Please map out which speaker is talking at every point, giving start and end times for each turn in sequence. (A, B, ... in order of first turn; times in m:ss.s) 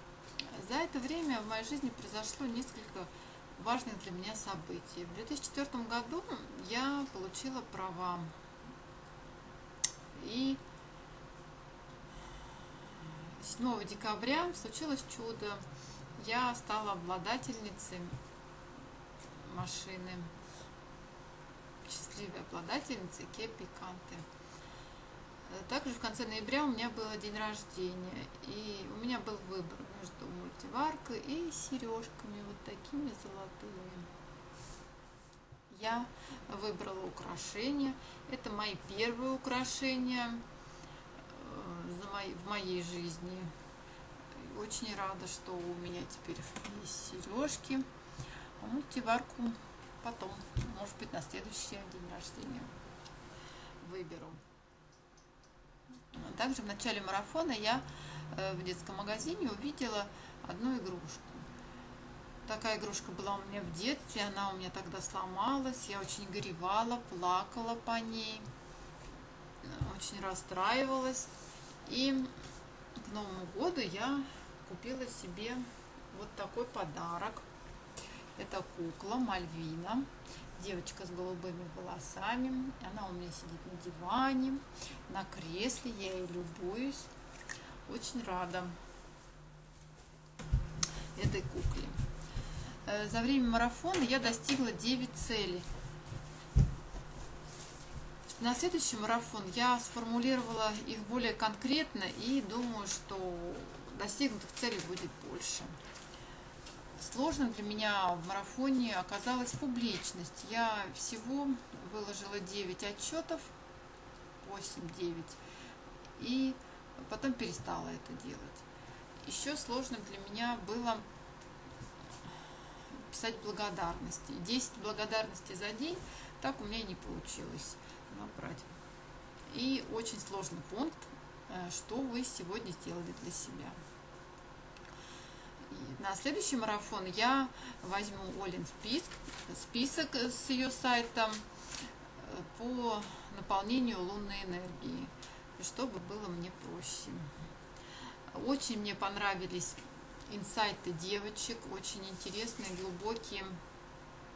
0:00.4-0:08.3 A
0:10.2-0:10.6 A
0:13.4-0:15.6 A
0:16.2-0:18.2 A
0:19.4-0:20.3 A
0:21.8-0:24.3 A
0:25.5-0:34.1 A
0:35.7-0:40.4 A
0:41.3-0:43.5 A
0:44.4-0:47.9 A
0:48.6-0:52.7 A
0:53.8-0:54.4 A
0:56.1-1:01.5 A
1:02.5-1:08.5 A
1:09.6-1:11.3 A
1:11.9-1:12.3 A
1:13.0-1:17.4 A
1:18.4-1:27.1 A
1:27.9-1:28.8 A
1:31.2-1:32.0 A
1:32.9-1:35.7 A
1:38.3-1:45.8 A
1:47.0-1:53.5 A
1:54.4-1:55.4 A
1:56.2-1:58.6 A
1:59.2-2:01.0 A
2:03.1-2:08.7 A
2:09.5-2:13.8 A
2:15.7-2:21.4 A
2:22.2-2:27.3 A
2:28.3-2:33.6 A